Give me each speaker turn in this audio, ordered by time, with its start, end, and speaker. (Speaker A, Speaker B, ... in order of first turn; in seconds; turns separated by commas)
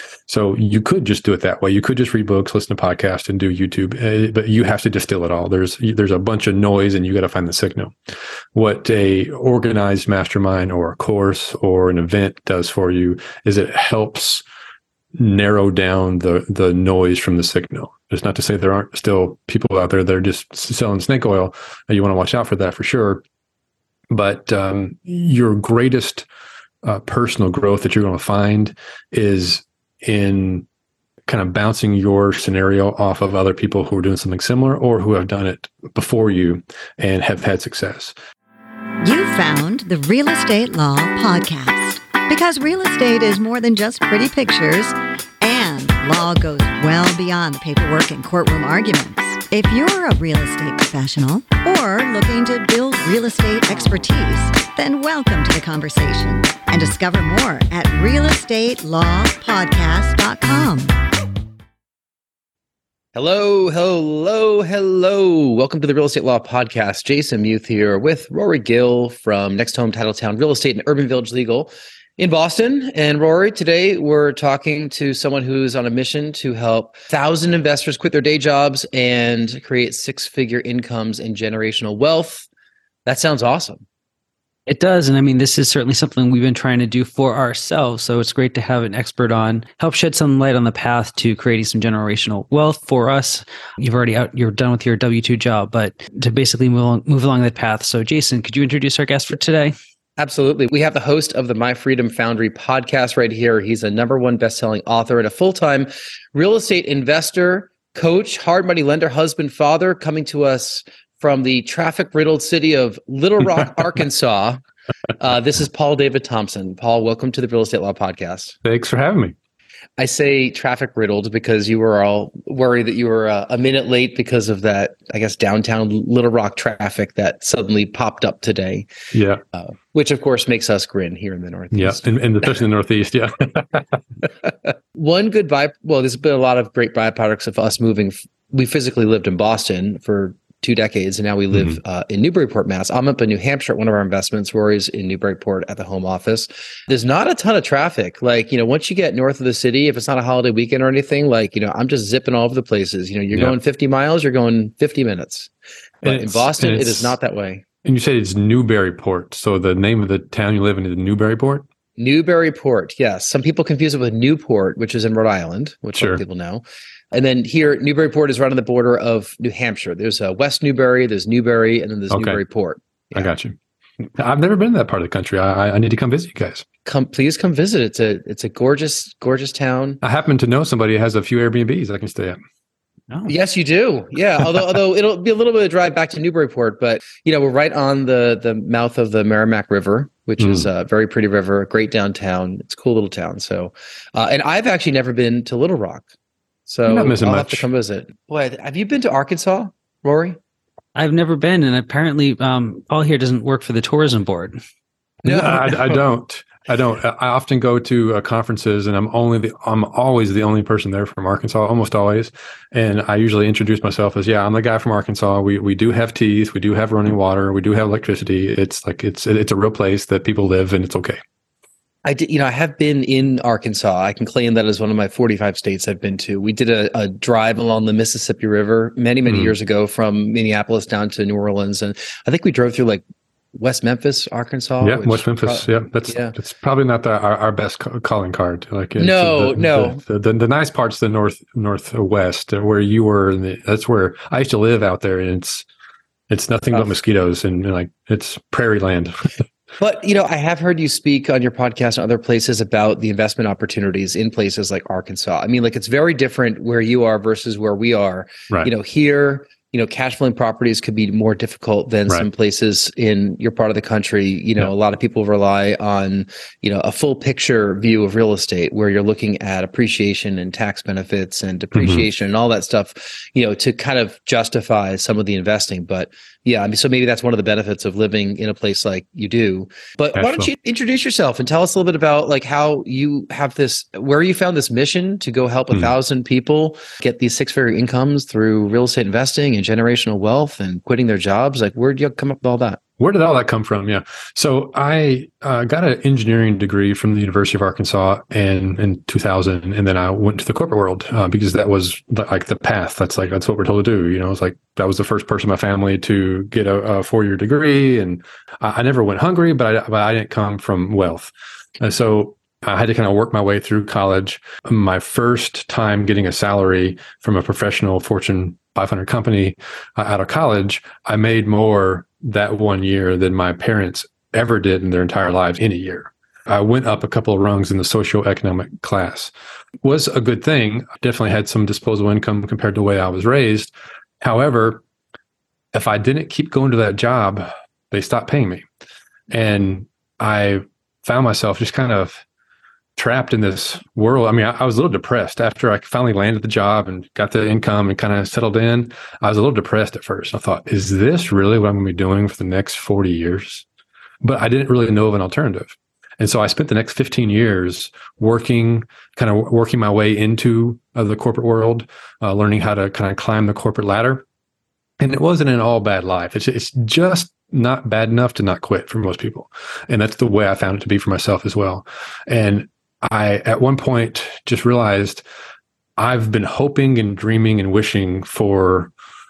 Speaker A: 0.3-8.0, Speaker A: 8.5-14.4, Speaker A: 15.2-23.2, Speaker A: 24.1-26.2, Speaker A: 26.8-30.6, Speaker A: 31.3-38.1, Speaker B: 39.0-61.0, Speaker C: 63.1-82.5, Speaker C: 83.0-83.8, Speaker D: 84.7-99.7, Speaker C: 100.2-114.6, Speaker C: 115.2-118.5, Speaker A: 118.6-119.3, Speaker C: 120.0-128.9, Speaker A: 129.1-129.4, Speaker C: 129.6-132.0, Speaker A: 131.7-133.9, Speaker C: 134.9-155.5, Speaker A: 141.5-141.8, Speaker A: 156.0-157.2, Speaker C: 156.0-157.6, Speaker A: 157.8-161.7, Speaker C: 162.0-173.3, Speaker A: 165.9-166.2, Speaker A: 172.1-172.4, Speaker A: 173.1-173.6, Speaker A: 174.2-176.7, Speaker C: 176.9-180.0, Speaker A: 180.0-182.4, Speaker C: 183.3-196.1, Speaker A: 190.4-190.7, Speaker C: 196.7-200.4, Speaker A: 196.9-197.7, Speaker D: 200.9-204.6, Speaker C: 205.2-206.0, Speaker A: 205.2-221.2, Speaker C: 222.1-233.0, Speaker A: 229.3-229.5, Speaker C: 233.6-236.3, Speaker A: 234.8-245.7, Speaker C: 239.0-240.0, Speaker A: 246.3-249.4, Speaker C: 249.8-292.8, Speaker A: 271.7-272.1, Speaker A: 280.1-280.5, Speaker A: 293.0-334.8, Speaker A: 335.7-338.6, Speaker A: 339.3-342.2, Speaker A: 342.9-353.6, Speaker A: 354.2-364.2, Speaker A: 365.0-375.2, Speaker A: 376.0-378.9